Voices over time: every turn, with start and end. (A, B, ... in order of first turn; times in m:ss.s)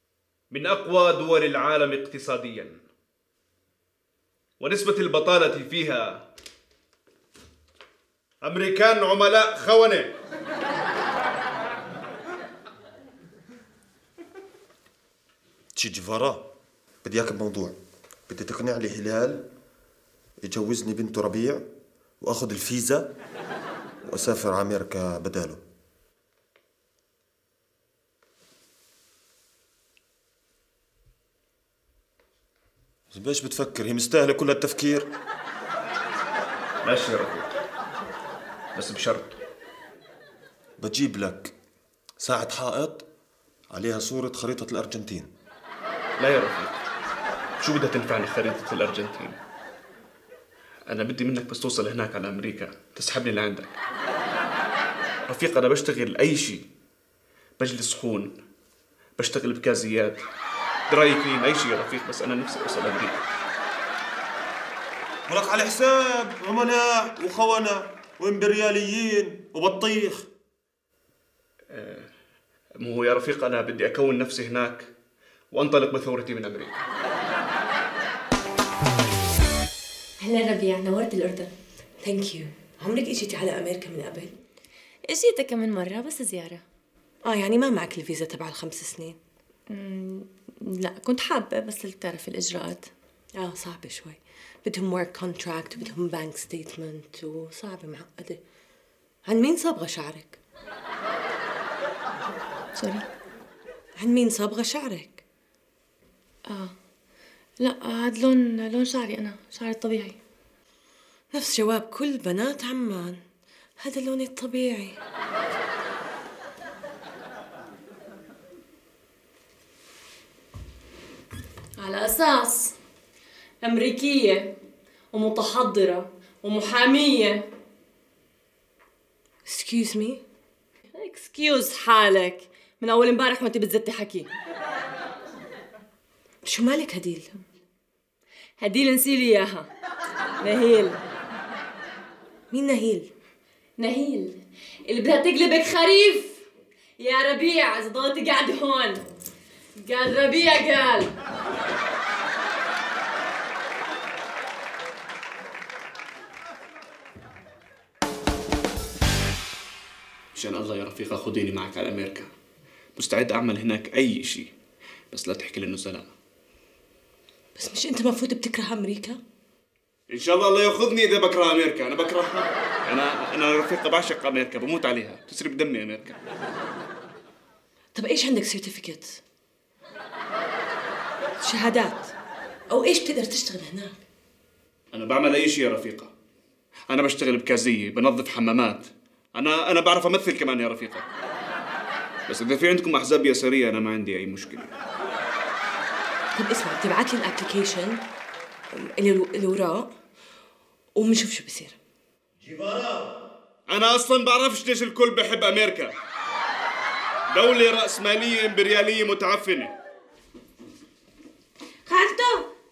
0:00.5-0:02.8 A
0:04.6-0:06.2 A
0:08.4-0:10.1 A
0:15.8-0:16.5 B
0:17.0-0:17.8 B
0:18.3-0:19.5 B
0:20.4-0:21.7 B
0:22.2-0:23.1 B
0:24.0-0:25.6 B
0:33.1-0:35.1 B
0:36.8-0:37.5 A
0:38.7-0:39.4 A
0:40.8-0:41.5 B
0:42.2-0:43.0 B
0:43.7-0:45.3 B
0:46.2-0:46.8 A
0:47.6-0:49.4 A
0:50.9-0:53.8 A
0:55.3-0:56.6 A
0:57.6-0:58.4 A
0:59.2-1:00.2 A
1:00.9-1:03.2 A
1:05.3-1:10.3 B
1:11.7-1:12.1 A
1:12.8-1:14.9 A
1:15.5-1:16.8 A
1:20.2-1:21.5 C
1:22.0-1:24.3 D
1:25.0-1:26.6 C
1:27.2-1:29.2 D
1:29.7-1:32.9 C
1:33.4-1:38.4 D
1:39.2-1:40.4 D
1:42.7-1:43.0 C
1:44.0-1:45.2 D
1:46.5-1:46.7 C
1:47.6-1:50.2 C
1:51.3-1:53.2 D
1:53.8-1:55.0 D
2:01.8-2:02.7 C
2:03.6-2:04.5 C
2:05.1-2:07.5 C
2:09.5-2:10.2 D
2:10.9-2:14.3 C
2:16.4-2:17.4 D
2:18.6-2:19.7 C
2:20.4-2:21.0 C
2:22.5-2:23.1 D
2:23.8-2:26.4 C
2:27.0-2:29.0 C
2:29.8-2:31.1 C
2:40.3-2:42.3 A
2:43.0-2:44.5 A
2:45.1-2:46.1 A
2:47.6-2:49.2 D
2:50.1-2:56.2 A
2:58.0-2:59.2 D
3:01.4-3:02.1 D
3:02.7-3:04.0 D
3:04.9-3:06.1 A
3:06.9-3:11.1 A
3:12.3-3:14.7 A
3:16.4-3:18.0 D
3:18.7-3:19.9 D
3:21.0-3:21.8 D
3:22.5-3:23.1 B
3:23.7-3:26.0 A
3:27.3-3:29.7 A
3:31.9-3:32.4 D